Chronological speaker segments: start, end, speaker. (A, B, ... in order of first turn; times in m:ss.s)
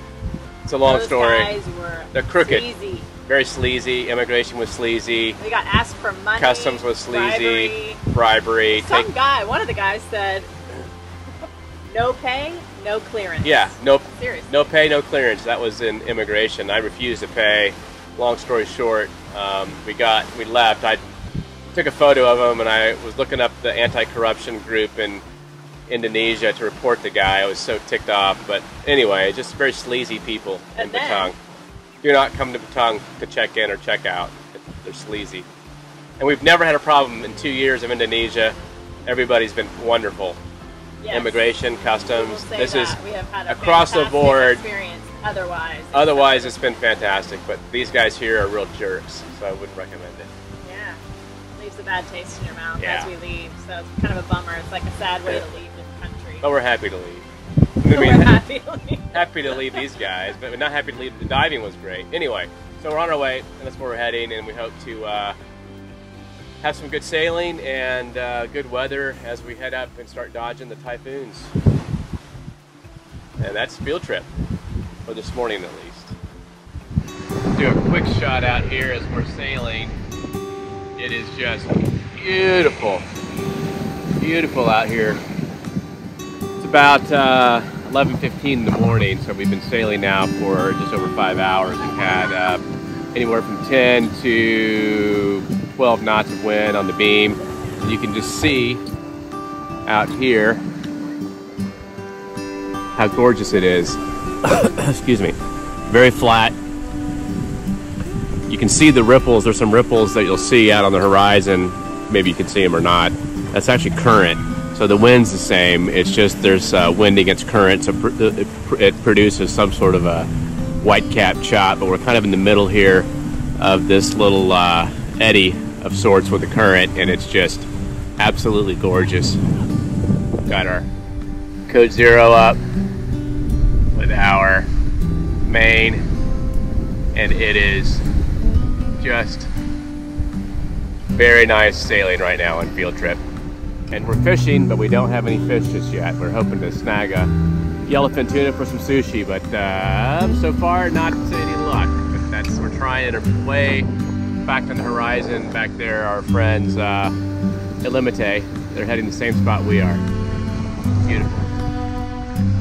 0:00.7-0:01.6 A
0:00.8-0:03.1 B
0:02.1-0:02.7 A
0:03.2-0:05.4 A
0:05.4-0:08.0 B
0:06.4-0:09.1 A
0:08.7-0:10.5 B
0:11.9-0:14.6 B
0:13.4-0:21.0 A
0:21.7-0:25.2 A
0:25.9-0:31.4 A
0:30.8-0:31.3 B
0:32.0-0:35.5 A
0:36.2-0:40.4 A
0:41.0-0:41.4 B
0:41.1-0:44.6 A
0:42.0-0:46.6 B
0:45.9-0:50.3 A
0:50.6-0:51.0 B
0:51.6-0:56.5 B
0:52.8-0:53.1 A
0:56.4-0:57.3 A
0:57.8-0:58.4 A
0:57.9-0:59.9 B
0:59.1-1:05.4 A
1:06.6-1:11.5 A
1:13.4-1:14.3 A
1:15.1-1:16.2 A
1:17.6-1:20.0 A
1:21.0-1:23.1 A
1:24.2-1:25.2 A
1:26.6-1:32.6 A
1:33.1-1:38.8 A
1:39.9-1:40.6 A
1:43.0-1:45.4 A
1:45.9-1:46.6 A
1:48.5-2:00.3 A
2:00.8-2:09.4 A
2:10.5-2:10.9 A
2:11.7-2:12.6 A
2:14.0-2:14.7 A
2:15.5-2:16.1 A
2:17.1-2:18.0 A
2:19.0-2:19.5 A
2:21.2-2:23.2 A
2:23.9-2:27.3 A
2:27.9-2:33.9 A
2:34.4-2:37.2 A
2:37.8-2:40.0 A
2:41.0-2:41.5 A